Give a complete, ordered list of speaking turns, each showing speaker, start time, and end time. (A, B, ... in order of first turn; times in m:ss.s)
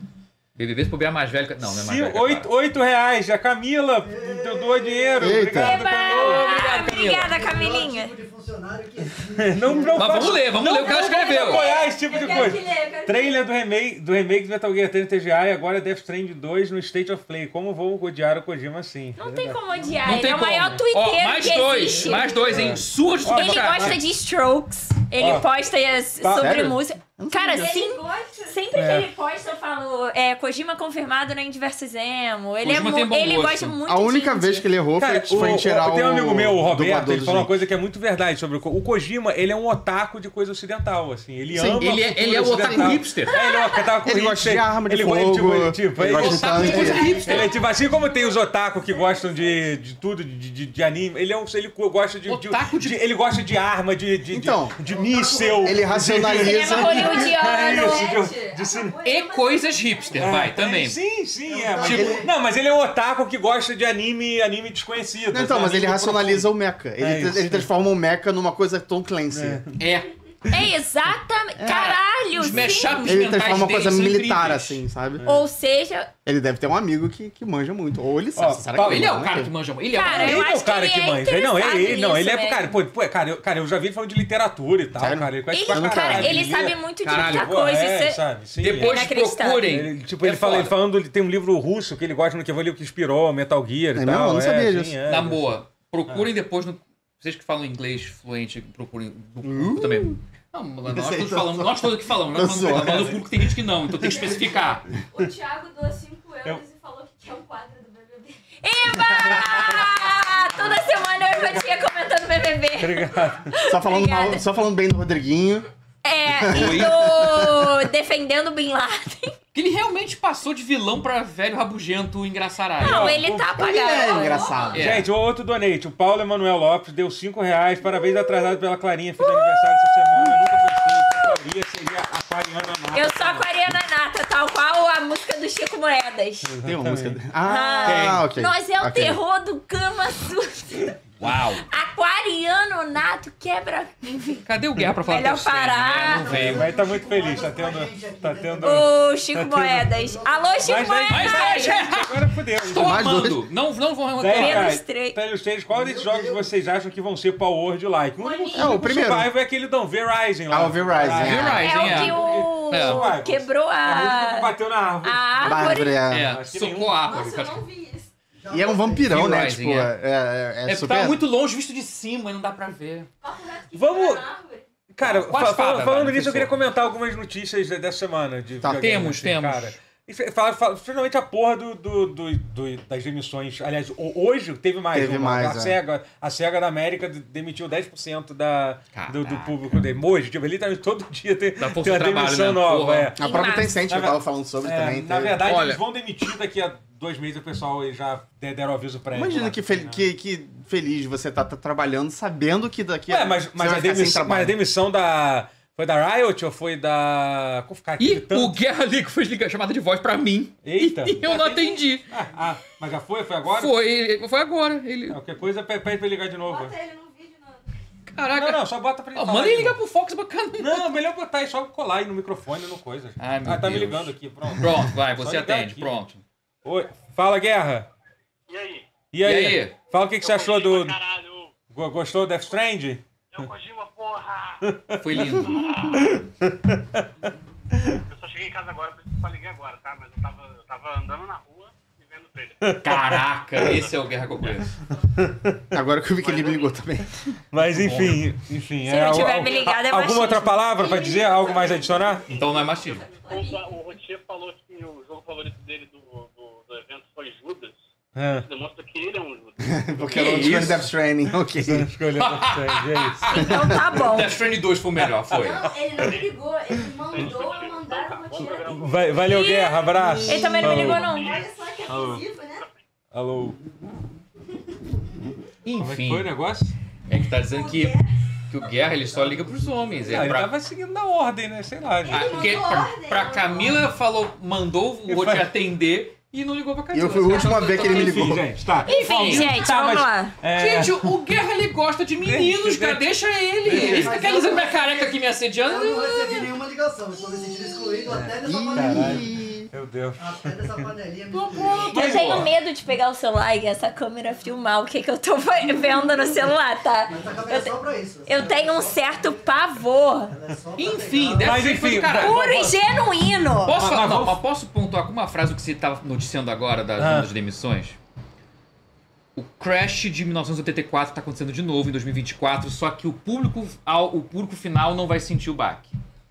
0:00.6-0:02.5 A
0:01.6-0:07.1 B
0:04.0-0:05.4 C
0:05.2-0:05.8 D
0:05.6-0:08.1 E
0:06.0-0:07.3 A
0:07.2-0:10.4 C
0:09.4-0:19.6 B
0:09.9-0:11.7 A
0:10.6-0:13.4 E
0:19.2-0:22.7 E
0:20.0-0:24.0 A
0:22.5-0:24.0 B
0:23.3-0:34.7 E
0:25.2-0:25.5 B
0:26.2-0:26.8 B
0:26.3-0:27.9 D
0:27.5-0:28.6 F
0:28.7-0:29.1 B
0:32.6-0:33.8 A
0:33.8-0:37.6 D
0:35.0-0:59.0 B
0:41.5-0:42.0 D
0:41.8-0:43.3 A
0:43.3-0:43.8 E
0:44.0-0:47.1 D
0:46.1-0:47.6 A
0:46.7-0:48.4 F
0:48.9-0:49.6 F
0:52.2-0:53.0 A
0:54.3-0:54.8 D
0:54.8-0:55.9 C
0:55.6-0:57.3 D
0:56.3-0:58.1 E
0:57.1-1:00.3 F
0:59.0-1:01.0 A
1:00.2-1:07.7 B
1:01.4-1:02.3 C
1:01.8-1:02.1 A
1:01.9-1:02.2 D
1:05.3-1:09.6 D
1:09.3-1:09.8 B
1:09.8-1:10.1 A
1:10.5-1:13.2 E
1:11.6-1:11.9 D
1:11.6-1:14.8 A
1:13.0-1:15.2 D
1:15.2-1:15.4 B
1:15.2-1:16.1 E
1:16.2-1:19.5 D
1:18.4-1:19.2 B
1:18.6-1:20.5 A
1:19.9-1:22.8 E
1:20.0-1:35.5 B
1:25.0-1:26.4 D
1:25.5-1:28.2 E
1:27.0-1:27.6 A
1:28.6-1:30.7 A
1:28.8-1:29.7 E
1:34.0-1:35.0 D
1:35.1-1:44.8 A
1:39.4-1:40.2 D
1:40.9-1:43.2 D
1:42.6-1:43.2 B
1:44.1-1:48.4 F
1:48.6-1:54.4 E
1:49.4-1:49.7 B
1:52.8-1:53.5 B
1:53.6-1:55.7 D
1:56.0-1:59.3 E
1:56.4-1:57.7 D
1:56.5-1:56.9 A
1:59.5-2:03.2 A
2:02.8-2:04.7 E
2:02.8-2:03.6 B
2:03.6-2:04.9 D
2:04.7-2:05.1 A
2:04.7-2:13.5 B
2:08.0-2:08.3 E
2:09.2-2:09.6 E
2:12.9-2:16.5 E
2:16.5-2:17.2 B
2:16.6-2:19.2 D
2:17.4-2:20.9 E
2:17.8-2:18.2 A
2:21.2-2:21.6 A
2:21.7-2:24.4 E
2:24.4-2:26.7 A
2:25.1-2:26.2 E
2:26.1-2:28.9 C
2:26.1-2:29.9 B
2:28.6-2:31.8 E
2:29.9-2:30.8 C
2:30.6-2:33.1 B
2:31.1-2:34.8 A
2:32.8-2:33.4 D
2:34.2-2:47.1 B
2:34.3-2:35.2 E
2:35.7-2:36.5 C
2:38.2-2:38.5 F
2:38.2-2:38.7 E
2:38.5-2:39.3 D
2:40.5-2:41.6 D
2:41.1-2:43.1 A
2:41.6-2:46.0 E
2:45.4-2:46.3 D
2:46.1-2:47.6 A
2:47.0-2:48.1 F
2:48.4-2:49.2 C
2:48.5-2:51.2 D
2:49.1-2:49.9 A
2:50.6-2:53.1 A
2:53.2-2:54.6 F
2:53.7-2:54.2 B
2:54.9-3:13.2 B
2:55.0-2:56.6 A
2:58.6-2:58.9 D
2:58.8-2:59.8 A
3:04.9-3:05.8 D
3:08.9-3:09.8 A
3:11.6-3:13.1 A
3:13.2-3:15.4 D
3:13.2-3:13.8 E
3:13.9-3:20.0 B
3:15.4-3:15.8 A
3:19.1-3:24.6 D
3:23.1-3:28.6 B
3:28.0-3:32.0 A
3:30.6-3:33.8 B
3:33.5-3:35.2 A
3:35.1-3:36.8 B
3:36.4-3:37.6 F
3:38.1-3:40.9 A
3:38.3-3:39.8 B
3:40.6-3:46.0 B
3:43.2-3:46.2 A
3:46.6-3:47.9 B
3:48.5-3:48.8 G
3:49.1-3:51.0 B
3:49.2-3:49.8 A
3:50.1-3:51.5 G
3:51.7-3:53.0 B
3:53.3-3:54.6 G
3:54.6-3:57.1 B
3:55.0-3:55.6 A
3:55.4-3:56.0 G
3:57.7-3:58.0 B
3:58.1-4:02.6 G
4:02.6-4:03.6 B
4:02.8-4:04.7 A
4:03.6-4:04.1 G
4:05.1-4:05.6 B
4:05.7-4:07.1 D
4:06.2-4:06.7 G
4:07.5-4:12.4 B
4:07.7-4:08.2 A
4:08.8-4:10.6 E
4:10.8-4:13.6 F
4:12.3-4:13.1 A
4:13.1-4:17.8 G
4:18.1-4:18.4 B
4:18.4-4:19.8 G
4:19.6-4:21.9 D
4:20.1-4:20.9 A
4:20.2-4:20.8 B
4:21.6-4:23.4 B
4:22.2-4:23.4 A
4:23.3-4:24.3 E
4:23.9-4:25.7 A
4:25.3-4:26.2 B
4:25.4-4:29.4 F
4:26.1-4:26.4 G
4:27.0-4:29.2 G
4:28.6-4:31.1 B
4:29.3-4:31.3 E
4:30.5-4:32.6 F
4:31.0-4:31.6 G
4:31.9-4:32.2 B
4:33.1-4:33.6 B
4:35.6-4:36.3 A
4:35.8-4:36.7 B
4:37.1-4:40.5 A
4:37.1-4:38.1 F
4:40.1-4:42.8 B
4:42.0-4:43.9 F
4:42.1-4:49.6 A
4:45.1-4:45.5 B
4:46.9-4:48.4 D
4:47.7-4:51.1 B
4:48.8-4:50.3 E
4:50.5-4:56.4 A
4:52.2-4:53.0 B
4:53.6-4:54.4 B
4:53.7-4:59.3 C
4:58.1-5:00.9 B
4:58.4-4:59.7 D
5:00.2-5:02.1 C
5:01.3-5:02.4 A
5:01.8-5:07.7 E
5:01.8-5:02.5 B
5:05.7-5:06.2 C
5:07.1-5:09.6 C
5:08.2-5:10.3 E
5:10.3-5:11.7 C
5:10.8-5:12.5 A
5:11.4-5:12.8 B
5:12.1-5:13.8 E
5:13.6-5:18.0 A
5:13.7-5:14.4 B
5:17.0-5:17.3 B
5:19.3-5:26.0 A